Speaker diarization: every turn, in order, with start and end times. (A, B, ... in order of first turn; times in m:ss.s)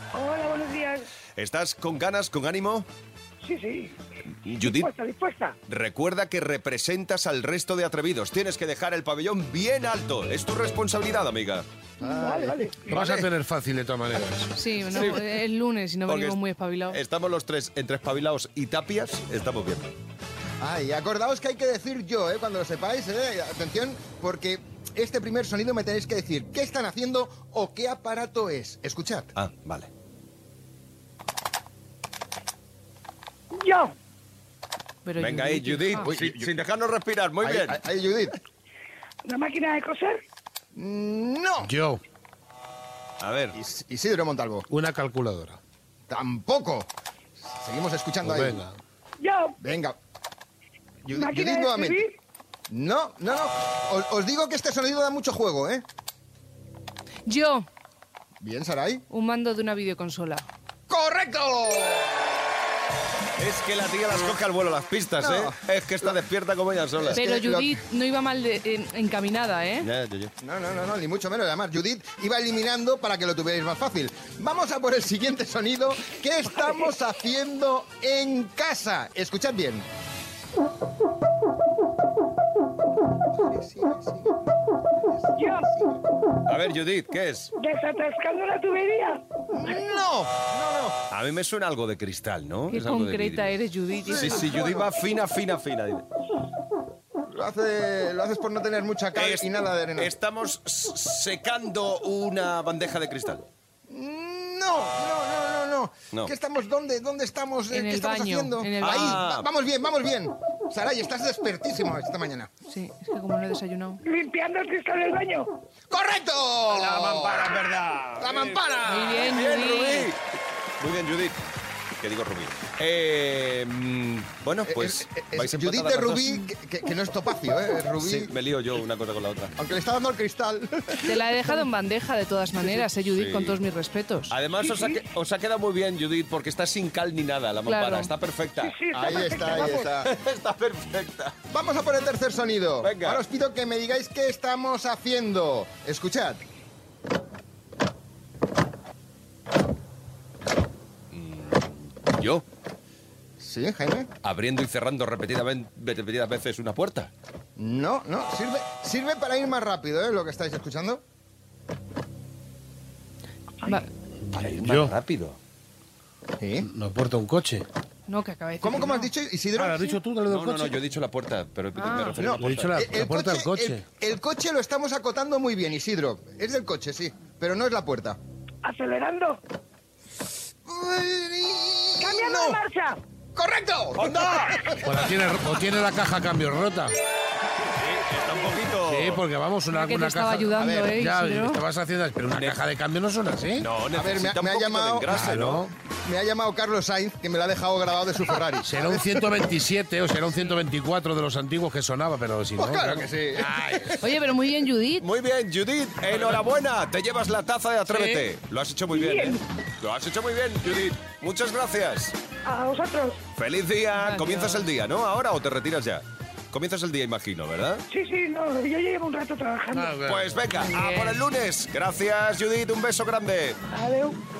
0:00.1-0:01.0 A
0:01.4-0:02.9 B
0:03.4-0:03.9 A
0:04.4-0:04.9 B
0:04.6-0:05.6 A
0:05.7-0:11.7 B
0:12.0-0:12.7 C
0:12.0-0:13.0 A
0:12.9-0:14.5 D
0:12.9-0:13.3 B
0:14.5-0:17.0 E
0:14.9-0:15.3 B
0:16.1-0:16.4 B
0:16.9-0:19.9 B
0:20.6-0:29.3 C
0:29.4-0:29.9 B
0:33.6-0:33.9 A
0:35.0-0:36.1 E
0:35.2-0:37.8 B
0:36.0-0:36.5 C
0:37.4-0:38.4 C
0:39.3-0:40.2 A
0:40.8-0:41.7 C
0:41.6-0:42.0 D
0:43.2-0:43.6 B
0:43.6-0:44.7 C
0:44.7-0:45.6 D
0:46.1-0:46.9 C
0:47.4-0:48.6 C
0:48.2-0:48.8 D
0:49.2-0:49.6 A
0:49.6-0:50.0 C
0:51.1-0:52.0 C
0:51.1-0:52.1 A
0:52.7-0:55.8 C
0:57.3-0:57.7 E
0:58.4-0:59.0 C
0:59.1-1:00.5 E
1:00.9-1:02.2 C
1:03.4-1:07.2 B
1:05.2-1:05.6 C
1:07.0-1:07.8 C
1:07.2-1:09.9 E
1:09.8-1:10.3 B
1:10.4-1:19.8 C
1:23.3-1:24.4 C
1:25.1-1:26.0 C
1:25.4-1:25.6 A
1:26.5-1:27.5 B
1:27.6-1:29.2 A
1:29.5-1:31.0 C
1:31.1-1:33.5 B
1:32.7-1:34.5 E
1:34.1-1:36.0 B
1:34.1-1:34.9 C
1:37.3-1:40.1 C
1:39.2-1:43.4 B
1:43.9-1:52.5 C
1:47.7-1:49.2 E
1:48.8-1:49.5 B
1:52.7-1:54.0 E
1:54.0-1:55.6 A
1:55.9-1:57.6 C
1:56.7-2:00.2 B
1:58.2-1:59.2 C
1:58.8-2:00.1 E
2:00.8-2:01.4 B
2:02.0-2:06.5 B
2:04.7-2:08.3 C
2:08.0-2:09.6 B
2:09.6-2:11.2 C
2:11.0-2:14.4 E
2:13.1-2:13.6 B
2:14.3-2:18.8 B
2:14.6-2:15.0 A
2:17.7-2:18.1 E
2:18.6-2:19.9 A
2:18.9-2:20.1 C
2:20.0-2:21.4 B
2:21.5-2:26.4 C
2:22.8-2:23.2 B
2:31.1-2:32.4 B
2:33.4-2:34.1 C
2:34.2-2:37.1 B
2:37.6-2:41.0 C
2:44.2-2:44.9 D
2:44.3-2:45.4 B
2:46.4-2:46.7 C
2:46.6-2:47.6 D
2:48.1-2:49.1 E
2:48.6-2:50.0 C
2:49.6-2:50.8 D
2:50.3-2:52.8 B
2:51.8-2:52.2 E
2:52.2-2:58.2 C
2:52.4-2:53.8 D
2:58.6-2:59.4 A
3:00.7-3:02.6 C
3:02.0-3:03.0 A
3:03.4-3:04.8 C
3:04.0-3:04.7 B
3:04.8-3:06.9 D
3:07.7-3:09.2 B
3:08.8-3:13.7 D
3:09.7-3:11.6 E
3:10.6-3:10.9 C
3:12.3-3:12.6 B
3:13.6-3:15.6 B
3:14.0-3:19.2 C
3:15.1-3:15.7 D
3:18.6-3:24.0 D
3:22.6-3:24.0 C
3:24.0-3:25.1 E
3:25.0-3:32.2 B
3:27.9-3:28.3 D
3:28.9-3:29.4 A
3:32.5-3:33.2 A
3:33.4-3:37.8 B
3:34.0-3:34.7 E
3:37.9-3:40.0 A
3:39.7-3:40.4 D
3:40.1-3:43.6 B
3:40.7-3:41.2 E
3:43.7-3:44.2 A